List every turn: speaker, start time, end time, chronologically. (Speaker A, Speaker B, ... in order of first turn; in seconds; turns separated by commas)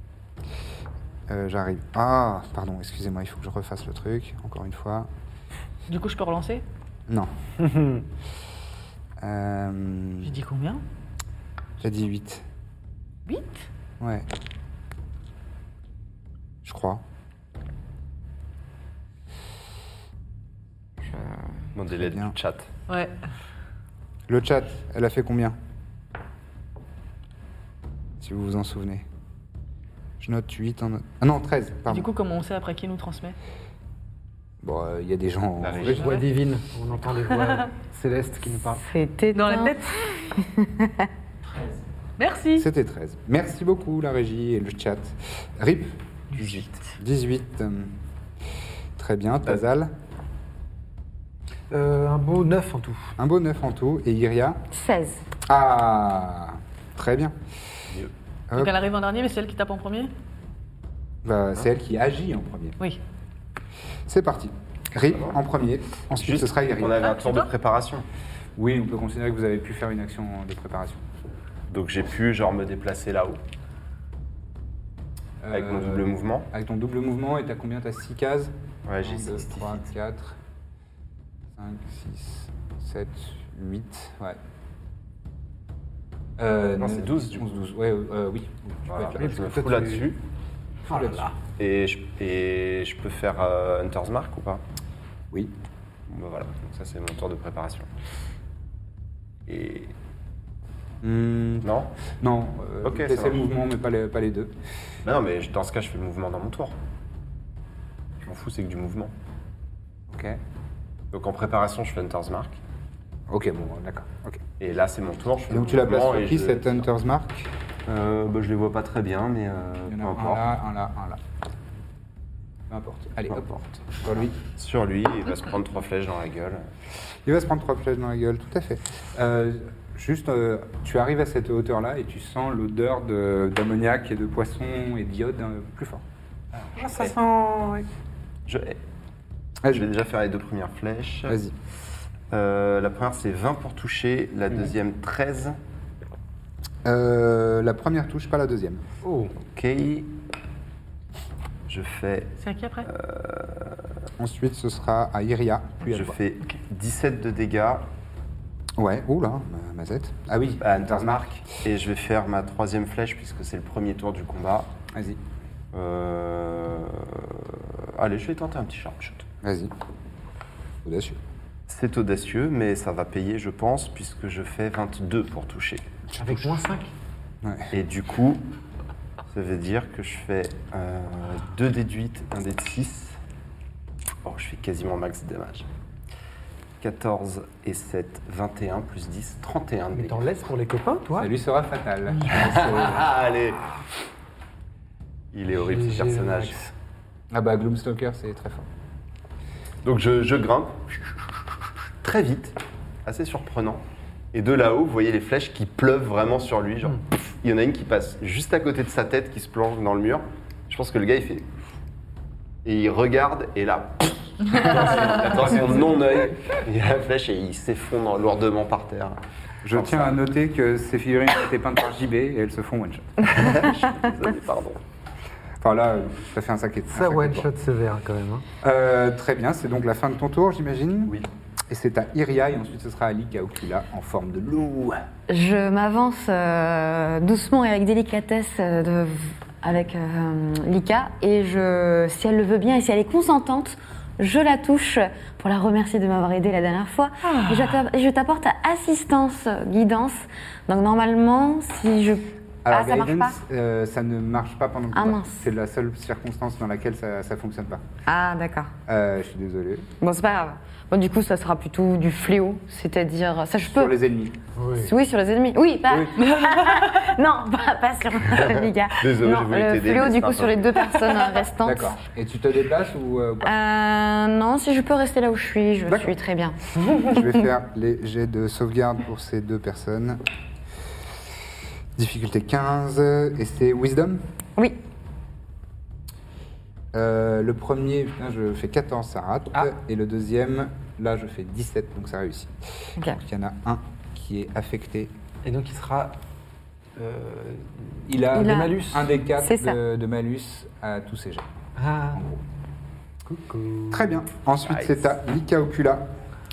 Speaker A: 1.3-5.1, Speaker B: 5.9-6.6, Speaker C: 7.6-8.1, Speaker A: 9.2-10.3, Speaker B: 10.2-10.8, Speaker A: 11.8-12.4, Speaker B: 13.3-13.7, Speaker A: 14.0-14.3, Speaker A: 16.6-17.0, Speaker D: 21.1-21.4, Speaker E: 21.8-22.7, Speaker A: 22.0-22.3, Speaker B: 22.9-23.1, Speaker A: 24.3-25.6, Speaker A: 28.2-29.1, Speaker A: 30.2-32.1, Speaker B: 31.9-33.4, Speaker A: 34.6-36.2, Speaker E: 35.6-36.1, Speaker C: 35.8-38.8, Speaker D: 38.8-41.1, Speaker B: 39.3-40.0, Speaker B: 42.2-42.7, Speaker A: 42.6-47.9, Speaker A: 49.0-49.9, Speaker C: 51.7-53.1, Speaker A: 53.2-54.6, Speaker D: 54.7-55.2, Speaker A: 55.5-57.4, Speaker B: 58.5-60.1, Speaker A: 61.2-62.8, Speaker A: 64.1-67.1, Speaker E: 65.1-65.4, Speaker E: 66.1-68.1, Speaker B: 66.8-67.5, Speaker A: 68.6-71.0, Speaker E: 71.7-73.4, Speaker A: 75.4-80.4, Speaker E: 75.5-76.5, Speaker E: 78.9-79.8, Speaker A: 81.5-84.4, Speaker A: 86.4-89.5, Speaker E: 86.8-87.5, Speaker E: 88.9-90.2, Speaker C: 89.2-90.1, Speaker C: 90.9-91.3, Speaker A: 90.9-91.3, Speaker E: 91.6-94.6, Speaker E: 96.1-97.9, Speaker E: 99.5-99.9, Speaker A: 101.0-104.5, Speaker E: 101.6-101.9, Speaker E: 102.8-103.5, Speaker E: 105.0-106.8, Speaker E: 108.2-109.1, Speaker A: 110.1-110.4, Speaker E: 111.1-112.6, Speaker A: 113.3-114.4, Speaker E: 114.6-116.9, Speaker A: 115.5-117.5, Speaker E: 117.9-120.5, Speaker A: 119.9-121.2, Speaker A: 122.7-124.4, Speaker E: 123.3-123.6, Speaker E: 124.4-126.7, Speaker A: 127.2-136.0, Speaker C: 136.8-137.9, Speaker E: 136.8-137.1, Speaker E: 138.5-138.8, Speaker E: 139.7-141.4, Speaker A: 141.3-141.5, Speaker E: 142.3-145.6, Speaker A: 146.8-148.8, Speaker C: 149.0-149.3, Speaker E: 149.5-150.1, Speaker E: 151.7-153.9, Speaker B: 152.4-152.9, Speaker A: 154.2-156.2, Speaker E: 155.9-157.9, Speaker A: 158.8-161.3, Speaker E: 160.6-164.7, Speaker A: 164.9-165.2, Speaker E: 165.7-169.3, Speaker A: 169.4-169.7, Speaker A: 170.8-171.2, Speaker E: 171.7-175.9, Speaker A: 176.1-176.5, Speaker C: 176.2-176.9, Speaker A: 177.4-177.7, Speaker E: 177.7-178.5, Speaker E: 179.3-183.2, Speaker E: 184.2-185.7, Speaker E: 186.8-190.3, Speaker C: 189.9-191.3, Speaker A: 191.2-193.1, Speaker E: 192.3-193.6, Speaker E: 195.3-196.6, Speaker C: 195.5-196.7, Speaker A: 197.3-198.7, Speaker E: 199.8-200.9, Speaker E: 202.0-211.5, Speaker E: 212.6-219.2, Speaker A: 219.6-223.4, Speaker E: 219.7-220.2, Speaker E: 223.3-224.8, Speaker A: 225.6-227.5, Speaker C: 226.9-228.5, Speaker A: 228.6-231.2, Speaker A: 231.7-235.0, Speaker D: 235.3-253.4, Speaker B: 247.2-247.8, Speaker A: 252.6-257.8, Speaker D: 254.9-255.4, Speaker D: 258.1-258.7, Speaker A: 258.9-259.9, Speaker D: 260.0-264.0, Speaker A: 263.6-264.4, Speaker C: 264.6-264.9, Speaker D: 264.8-271.9, Speaker A: 265.9-266.2, Speaker B: 266.2-267.0, Speaker E: 268.3-270.9, Speaker A: 271.6-273.5, Speaker D: 273.5-276.6, Speaker A: 275.9-276.1, Speaker A: 277.0-280.2, Speaker A: 282.0-284.2, Speaker A: 286.9-292.5, Speaker A: 293.1-295.1, Speaker C: 295.4-296.2, Speaker C: 297.0-299.1, Speaker A: 298.1-301.4, Speaker D: 298.3-298.8, Speaker D: 299.4-299.8, Speaker C: 301.8-302.2, Speaker A: 302.1-302.4, Speaker C: 303.2-304.2, Speaker A: 303.9-306.1, Speaker E: 304.6-305.1